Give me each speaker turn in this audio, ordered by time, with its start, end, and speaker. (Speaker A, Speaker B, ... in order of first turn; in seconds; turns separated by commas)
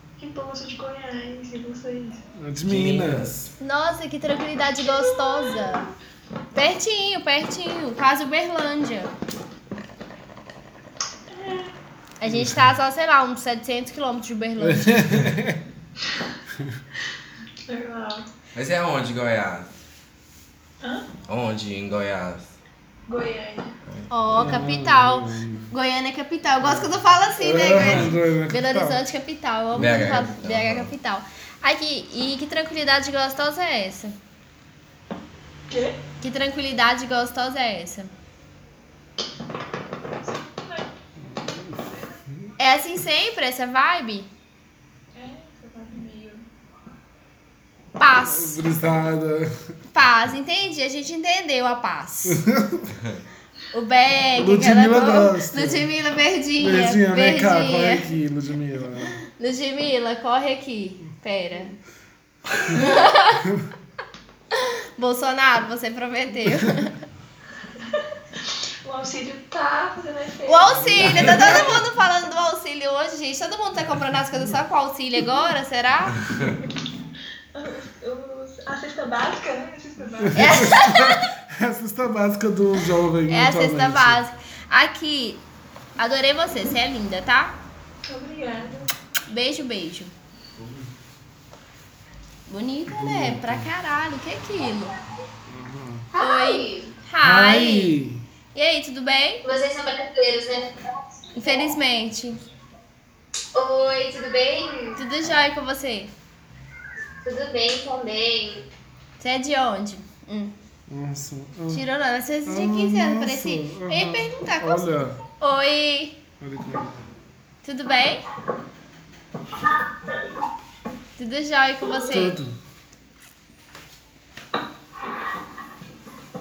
Speaker A: 0.2-2.2, Speaker B: 2.4-3.5, Speaker C: 2.7-3.3, Speaker D: 3.6-5.8, Speaker A: 4.9-5.8, Speaker D: 6.5-9.1, Speaker A: 11.3-11.7, Speaker D: 12.2-15.0, Speaker B: 12.2-12.7, Speaker B: 14.6-15.6, Speaker A: 17.7-18.2, Speaker C: 18.5-19.7, Speaker C: 21.3-22.5, Speaker A: 23.1-23.7, Speaker D: 24.1-34.1, Speaker B: 24.3-25.7, Speaker B: 26.6-29.0, Speaker C: 29.7-30.9, Speaker A: 35.7-36.0, Speaker D: 36.2-38.1, Speaker A: 40.2-40.9, Speaker B: 41.3-41.8, Speaker D: 42.6-44.3, Speaker A: 45.1-46.4, Speaker D: 48.0-48.6, Speaker B: 48.3-49.5, Speaker D: 49.9-52.4, Speaker B: 52.3-52.9, Speaker D: 53.7-58.0, Speaker B: 54.4-55.9, Speaker B: 56.6-59.2, Speaker D: 59.3-61.7, Speaker D: 62.7-63.4, Speaker D: 65.0-67.0, Speaker A: 68.8-71.6, Speaker D: 70.5-76.2, Speaker B: 71.0-71.8, Speaker A: 77.5-80.6, Speaker B: 80.3-84.2, Speaker D: 80.3-81.2, Speaker D: 83.3-85.4, Speaker D: 86.0-87.5, Speaker A: 88.0-88.9, Speaker D: 89.3-90.1, Speaker D: 92.5-95.0, Speaker B: 92.9-93.7, Speaker B: 95.5-96.1, Speaker E: 96.1-96.9, Speaker D: 96.2-98.0, Speaker B: 97.2-98.2, Speaker D: 98.5-99.4, Speaker E: 99.4-100.7, Speaker D: 101.3-102.4, Speaker E: 103.5-105.0, Speaker D: 104.9-106.1, Speaker E: 107.2-108.6, Speaker D: 109.2-110.5, Speaker B: 110.9-111.8, Speaker D: 111.7-114.9, Speaker B: 112.5-115.2, Speaker D: 115.4-116.2, Speaker B: 116.4-117.0, Speaker D: 117.6-118.2, Speaker D: 121.2-122.4, Speaker B: 122.0-122.5